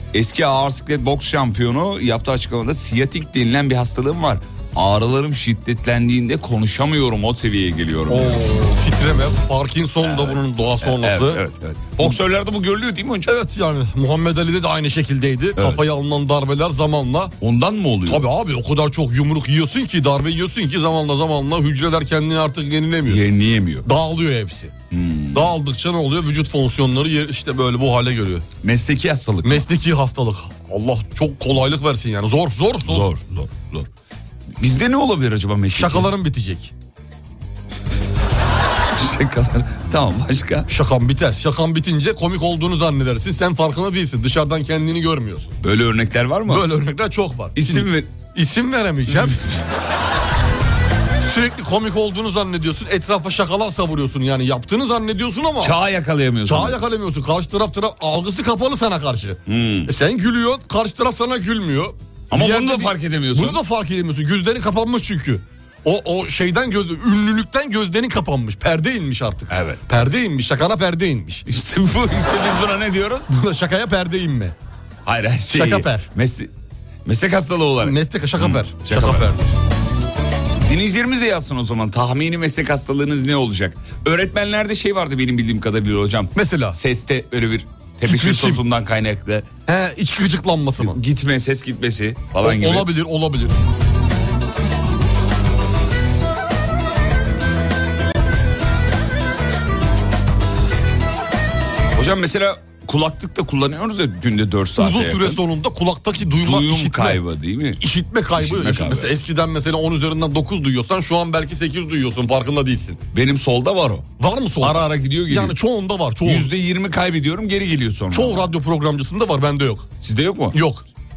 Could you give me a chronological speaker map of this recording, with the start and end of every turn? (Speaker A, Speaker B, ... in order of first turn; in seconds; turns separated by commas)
Speaker A: 0.1-8.5, Speaker B: 8.1-11.4, Speaker A: 10.0-13.3, Speaker B: 13.3-17.4, Speaker A: 15.6-15.8, Speaker A: 17.4-18.3, Speaker B: 18.1-23.2, Speaker A: 23.1-23.9, Speaker B: 23.9-24.7, Speaker A: 24.9-25.6, Speaker B: 25.3-28.5, Speaker A: 28.6-29.7, Speaker B: 29.4-33.1, Speaker A: 32.8-33.9, Speaker A: 34.6-36.1, Speaker B: 35.7-36.7, Speaker A: 38.9-40.7, Speaker B: 40.7-45.6, Speaker A: 45.6-46.7, Speaker B: 46.5-49.4, Speaker A: 47.6-48.1, Speaker A: 49.1-49.4, Speaker B: 51.2-55.8, Speaker A: 55.6-56.8, Speaker B: 56.5-71.4, Speaker A: 59.5-59.9, Speaker A: 62.3-63.6, Speaker A: 69.5-69.8, Speaker A: 71.5-73.3, Speaker B: 73.3-74.5, Speaker A: 75.0-76.5, Speaker B: 75.5-76.1, Speaker A: 77.0-79.3, Speaker B: 77.8-79.5, Speaker A: 80.6-89.5, Speaker B: 86.4-86.8, Speaker B: 88.0-88.6, Speaker B: 89.7-91.0, Speaker A: 90.8-92.9, Speaker B: 92.4-93.6, Speaker A: 102.0-105.4, Speaker B: 104.8-107.2, Speaker A: 106.4-107.8, Speaker B: 107.8-113.0, Speaker A: 108.3-109.1, Speaker A: 113.1-114.1, Speaker B: 114.2-116.5, Speaker A: 114.6-115.6, Speaker A: 116.2-118.5, Speaker B: 118.1-119.9, Speaker A: 120.0-120.6, Speaker B: 120.5-120.8